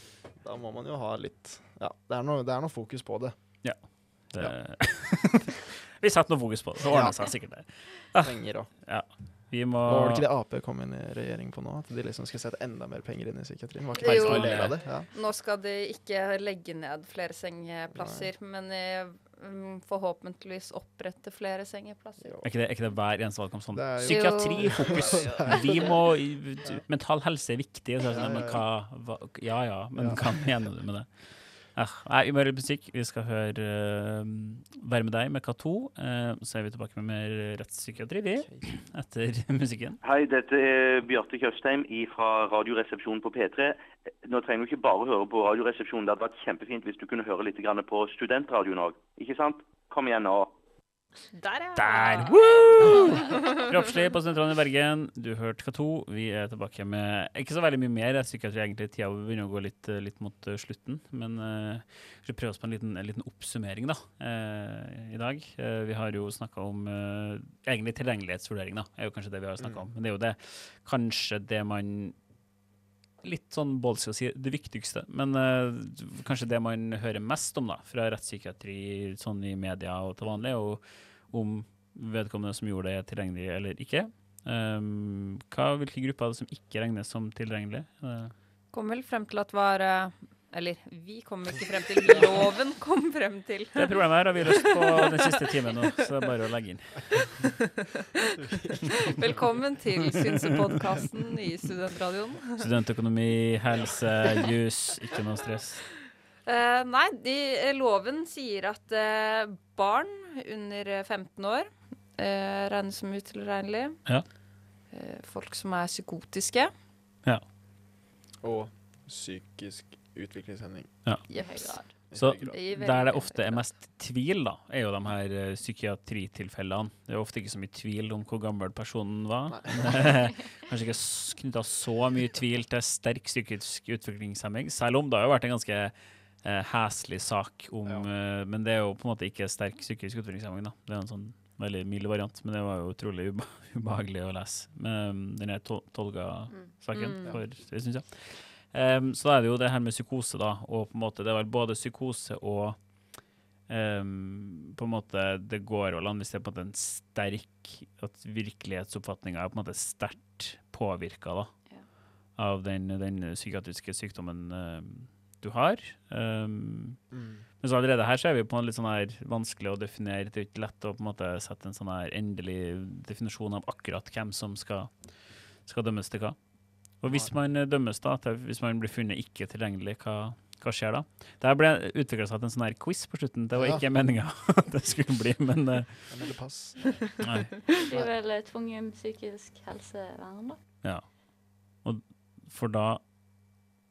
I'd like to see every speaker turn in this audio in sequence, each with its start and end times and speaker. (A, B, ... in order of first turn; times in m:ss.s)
0:00.4-0:05.3 A
0:03.6-0:10.3 B
0:06.9-0:15.1 A
0:14.0-0:22.3 C
0:14.0-0:14.8 B
0:17.9-0:18.3 A
0:22.2-0:22.5 A
0:22.4-0:40.0 B
0:23.7-0:26.8 A
0:24.1-0:25.1 C
0:28.1-0:28.7 A
0:30.0-0:30.7 A
0:38.4-0:38.8 A
0:40.0-0:50.6 D
0:51.3-0:53.6 C
0:51.8-1:12.3 B
1:09.6-1:09.9 A
1:13.2-1:28.3 B
1:28.7-1:34.6 C
1:33.8-1:37.4 B
1:39.1-1:42.6 C
1:42.6-1:45.9 B
1:46.4-1:54.4 C
1:54.9-1:56.7 C
1:58.4-2:01.2 A
2:01.3-2:03.7 C
2:01.3-2:01.9 E
2:01.9-2:41.7 B
2:02.1-2:02.5 A
2:09.5-2:10.4 A
2:26.9-2:27.4 C
2:42.4-3:06.1 B
2:47.1-2:47.5 A
2:57.0-2:57.3 A
3:03.5-3:03.9 A
3:06.1-3:08.1 A
3:07.2-3:07.5 B
3:07.8-3:10.6 E
3:10.8-3:13.5 B